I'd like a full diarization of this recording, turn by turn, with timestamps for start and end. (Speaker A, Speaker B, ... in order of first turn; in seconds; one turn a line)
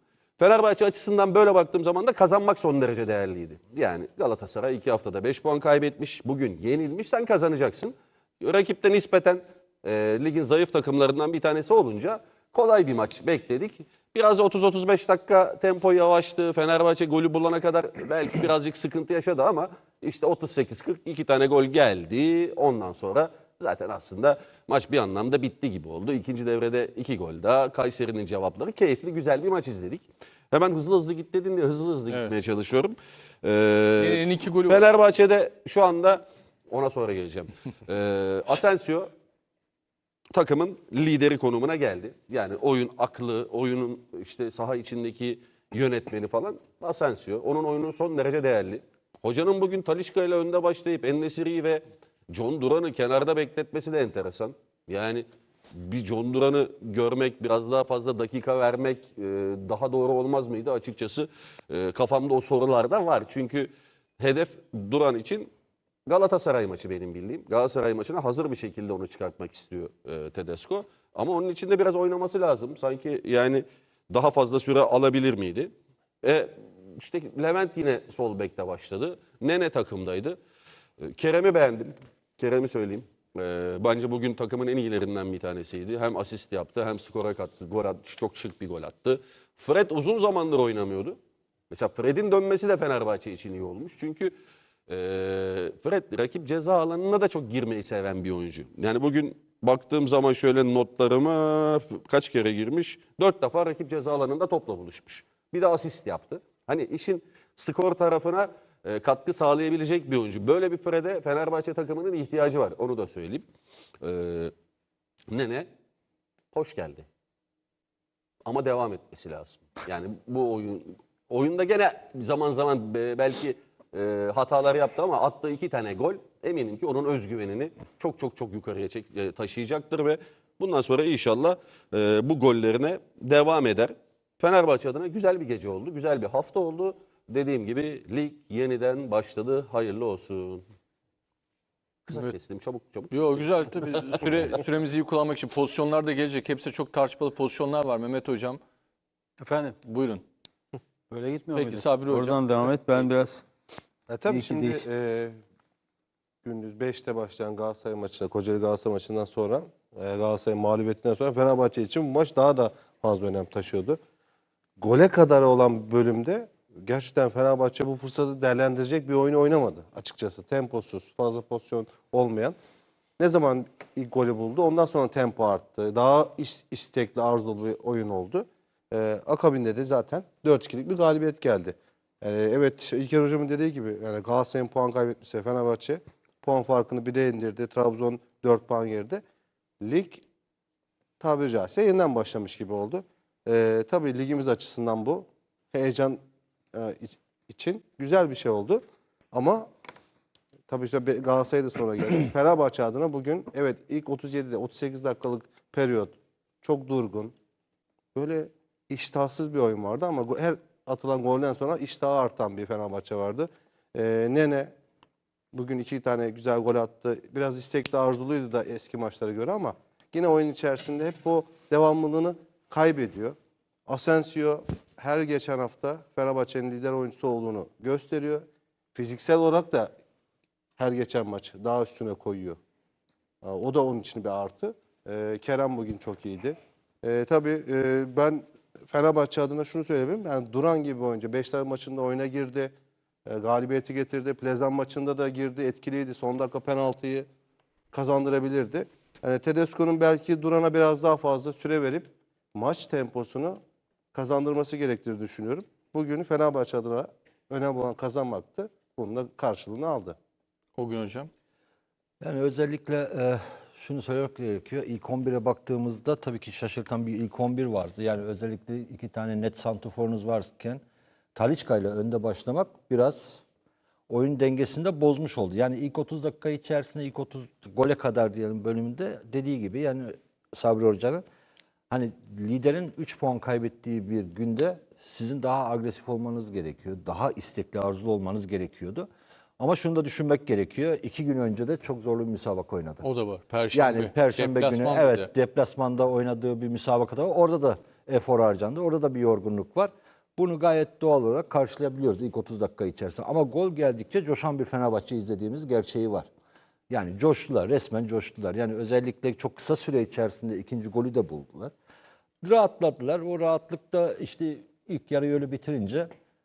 Speaker A: 0.4-39.1
Speaker B: 34.0-34.9
Speaker A: 40.3-65.5
Speaker A: 66.0-80.4
Speaker A: 81.0-91.2
Speaker A: 91.7-94.3
Speaker A: 94.9-113.5
Speaker A: 114.0-114.5
Speaker A: 115.3-115.7
Speaker A: 116.5-117.0
Speaker A: 118.5-140.6
Speaker A: 142.1-143.4
Speaker B: 143.1-148.6
Speaker C: 149.4-149.8
Speaker B: 149.8-150.2
Speaker C: 151.1-153.4
Speaker B: 151.5-152.4
Speaker D: 154.1-155.4
Speaker C: 154.3-154.8
Speaker D: 156.4-164.0
Speaker D: 164.8-172.6
Speaker D: 173.2-189.2
Speaker D: 189.8-190.2
Speaker D: 191.2-196.2
Speaker D: 196.7-198.8
Speaker D: 199.3-199.7
Speaker D: 200.7-207.3
Speaker D: 208.1-214.7
Speaker D: 215.5-223.3
Speaker D: 223.9-229.9
Speaker D: 230.8-232.6
Speaker D: 233.4-242.7
Speaker D: 243.2-247.3
Speaker D: 247.9-253.6
Speaker D: 254.1-260.1
Speaker B: 260.8-261.3
Speaker E: 262.2-270.8
Speaker E: 271.3-273.4
Speaker E: 274.1-281.2
Speaker E: 281.9-289.1
Speaker E: 289.6-293.0
Speaker B: 293.0-295.3
Speaker E: 293.7-306.3
Speaker E: 306.9-311.7
Speaker E: 312.4-316.1